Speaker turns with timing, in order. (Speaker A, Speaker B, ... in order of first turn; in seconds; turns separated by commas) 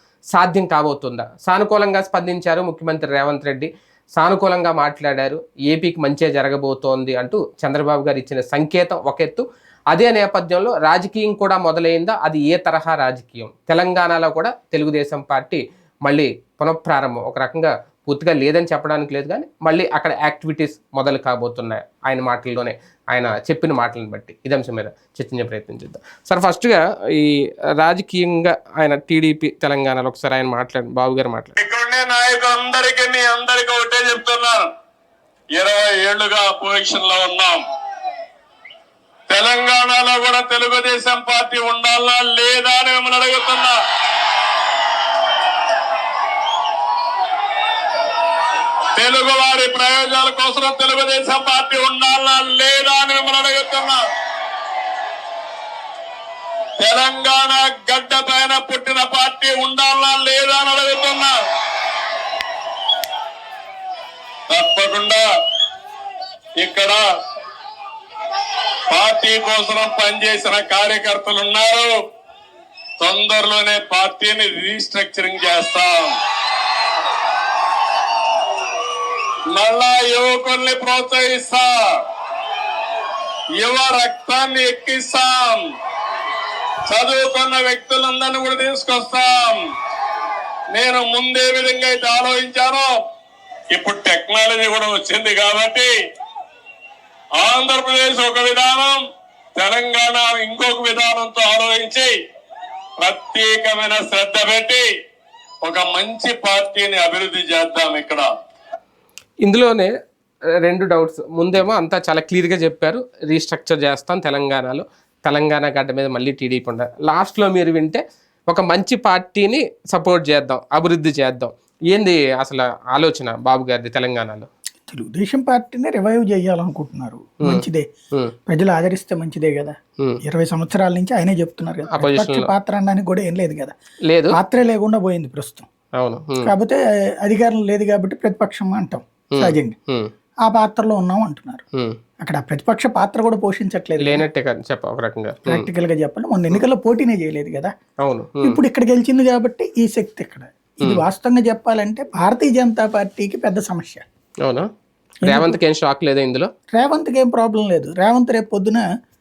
Speaker A: 0.3-31.6, Speaker B: 31.6-34.7, Speaker B: 35.5-37.6, Speaker B: 39.3-43.8, Speaker B: 49.0-54.0, Speaker B: 56.8-61.4, Speaker B: 64.5-65.3, Speaker B: 66.6-67.1, Speaker B: 68.9-72.0, Speaker B: 73.0-76.2, Speaker B: 79.5-82.0, Speaker B: 83.6-85.7, Speaker B: 86.9-89.6, Speaker B: 90.7-92.9, Speaker B: 93.7-96.0, Speaker B: 97.4-99.0, Speaker B: 99.6-102.2, Speaker B: 103.0-104.9, Speaker B: 105.6-108.3, Speaker A: 109.4-109.9, Speaker A: 110.6-124.5, Speaker C: 124.9-127.9, Speaker A: 127.4-128.3, Speaker C: 128.5-133.7, Speaker A: 131.9-132.5, Speaker A: 134.1-134.4, Speaker C: 134.3-135.7, Speaker A: 136.0-136.5, Speaker C: 136.4-139.8, Speaker A: 139.3-140.1, Speaker C: 140.4-141.6, Speaker C: 142.2-144.2, Speaker A: 144.0-145.7, Speaker C: 145.5-147.7, Speaker A: 148.0-148.6, Speaker C: 148.4-154.1, Speaker C: 155.2-155.6, Speaker A: 155.2-156.5, Speaker C: 156.7-158.8